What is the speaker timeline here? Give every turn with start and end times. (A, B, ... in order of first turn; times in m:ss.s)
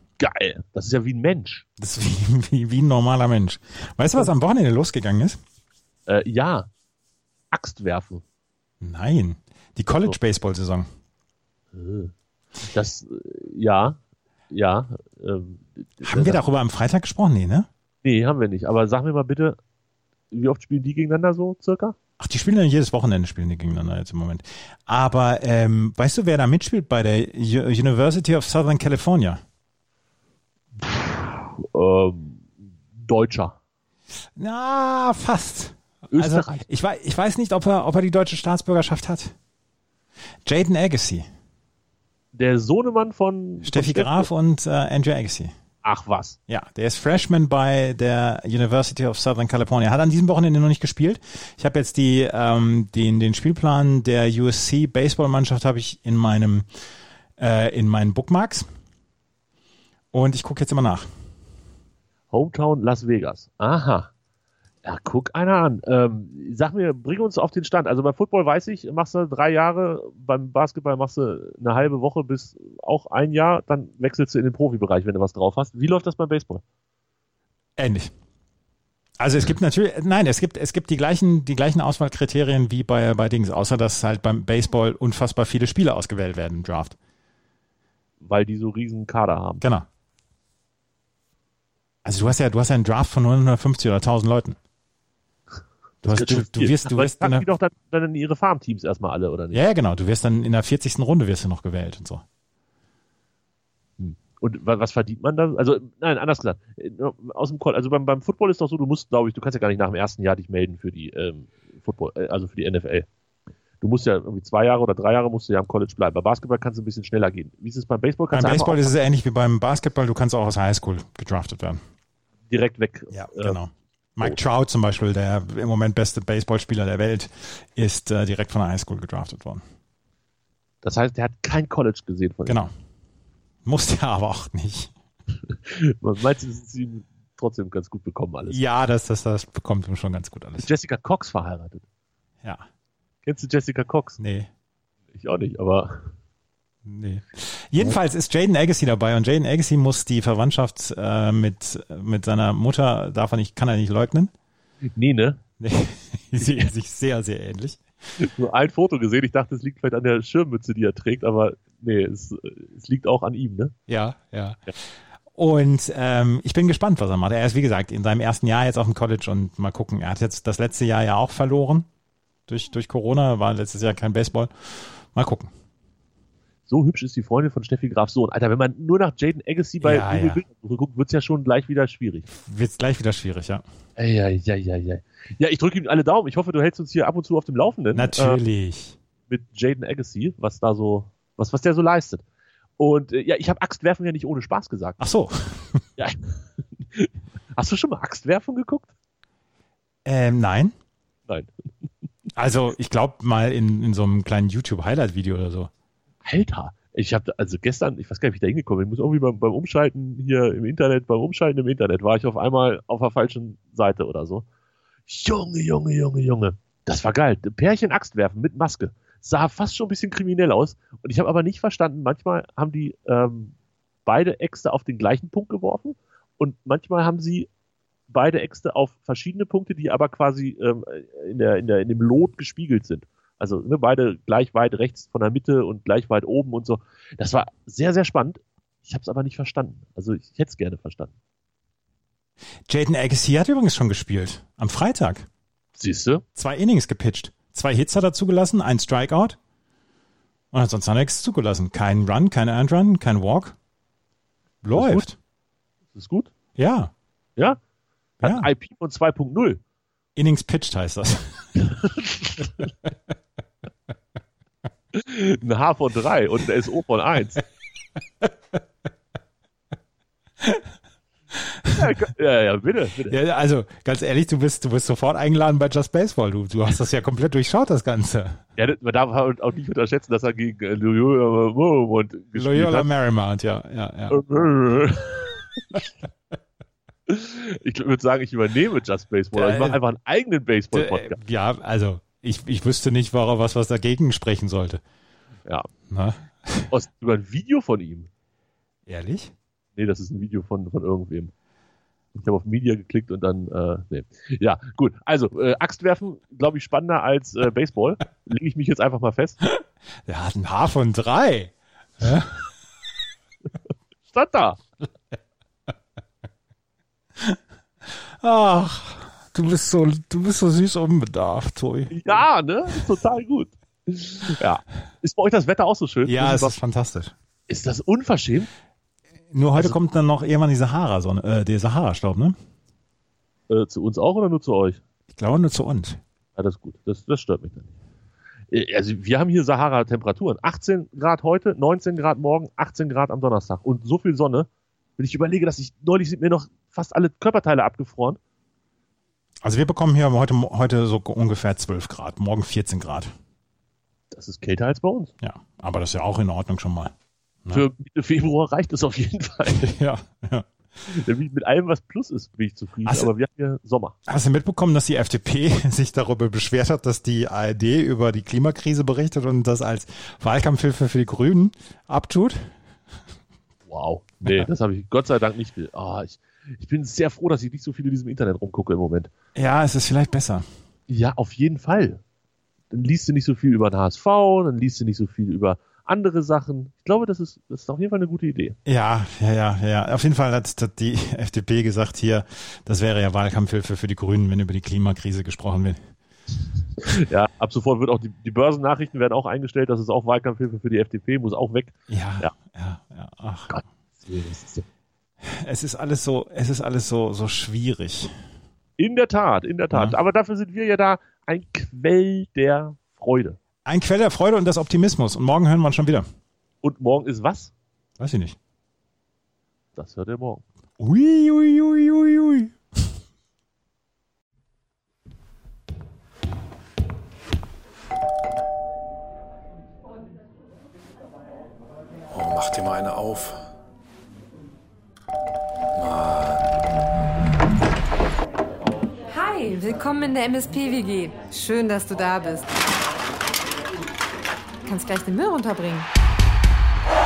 0:00.2-0:01.6 A
0:01.8-0:05.4 B
0:06.1-0:06.7 A
0:07.5-0:08.2 A
0:08.8-0:10.9 B
0:11.7-0:14.0 A
0:14.5-0:16.4 A
0:16.0-0:17.7 B
0:18.0-0:19.6 A
0:20.3-0:22.0 A
0:22.2-0:29.4 B
0:30.8-0:33.6 A
0:34.4-0:39.3 B
0:36.1-0:36.6 A
0:40.4-0:41.2 B
0:42.3-0:44.3 A
0:43.6-0:45.5 B
0:45.8-0:46.4 A
0:46.5-0:56.7 B
0:57.4-0:58.7 B
1:00.1-1:01.1 B
1:02.3-1:04.1 A
1:04.8-1:16.6 A
1:17.8-1:18.1 B
1:19.2-1:27.0 B
1:28.2-1:29.6 A
1:29.6-1:29.9 B
1:32.0-1:34.6 B
1:36.0-1:37.5 B
1:36.0-1:39.6 A
1:39.5-1:42.2 B
1:44.0-1:53.1 A
1:53.8-1:58.9 A
1:58.3-2:01.8 B
2:02.5-2:03.6 A
2:03.1-2:09.6 B
2:10.8-2:12.6 A
2:12.4-2:12.7 B
2:13.6-2:14.9 B
2:15.5-2:18.6 A
2:18.5-2:20.7 B
2:20.6-2:21.8 A
2:23.2-2:24.2 A
2:24.2-2:24.5 B
2:25.1-2:26.1 A
2:26.8-2:34.3 B
2:34.9-2:35.4 A
2:35.6-2:37.8 B
2:36.4-2:36.7 A
2:38.2-2:43.7 A
2:43.9-2:44.6 B
2:45.3-2:51.9 B
2:52.5-2:55.5 B
2:56.7-3:02.3 A
2:59.8-3:00.4 B
3:02.3-3:03.6 B
3:04.0-3:08.4 A
3:07.9-3:09.0 B
3:09.3-3:12.2 A
3:12.8-3:15.0 A
3:15.0-3:15.8 B
3:16.0-3:18.9 A
3:20.0-3:20.7 B
3:22.3-3:25.7 B
3:26.2-3:34.4 A
3:35.1-3:43.5 A
3:44.0-3:47.5 A
3:48.1-4:01.1 A
4:02.7-4:05.3 B
4:05.8-4:06.2 A
4:06.4-4:09.4 B
4:10.5-4:13.6 B
4:14.6-4:15.2 B
4:14.7-4:15.1 A
4:15.9-4:16.3 A
4:16.6-4:16.9 B
4:18.2-4:19.6 A
4:18.2-4:18.5 B
4:20.2-4:21.5 B
4:21.6-4:22.5 A
4:24.9-4:27.4 A
4:31.3-4:31.9 B
4:31.7-4:33.2 A
4:33.1-4:38.4 B
4:38.6-4:42.9 A
4:42.3-4:44.2 B
4:44.1-4:45.9 A
4:47.1-4:51.2 A
4:49.3-4:49.8 B
4:50.7-4:54.8 B
4:55.9-4:56.7 B
4:56.7-4:58.1 A
4:58.8-4:59.3 B
4:59.8-5:01.3 A
5:02.1-5:09.4 A
5:09.5-5:12.4 B
5:14.1-5:14.6 A
5:18.2-5:22.0 B
5:21.9-5:26.6 A
5:26.0-5:27.1 B
5:27.5-5:28.5 A
5:29.3-5:32.4 B
5:33.5-5:34.8 A
5:35.1-5:36.0 B
5:36.4-5:37.7 A
5:38.5-5:48.2 A
5:49.4-5:53.1 B
5:54.1-5:55.1 A
5:55.2-5:56.9 B
5:57.5-5:59.8 A
5:59.5-6:00.5 B
6:00.8-6:04.0 A
6:02.8-6:03.1 B
6:04.1-6:12.5 B
6:13.7-6:19.1 A
6:19.3-6:20.4 B
6:20.9-6:22.0 A
6:22.7-6:28.6 A
6:28.6-6:35.8 B
6:36.8-6:42.3 A
6:41.9-6:43.6 B
6:43.5-6:44.6 A
6:45.2-6:48.1 B
6:48.8-6:53.4 A
6:49.7-6:50.0 B
6:53.6-6:56.0 B
6:56.6-6:57.5 A
6:58.0-6:58.4 B
6:59.7-7:00.4 A
7:00.8-7:02.5 B
7:12.1-7:13.4 C
7:15.8-7:16.4 C
7:19.1-7:22.6 D
7:24.6-7:25.9 D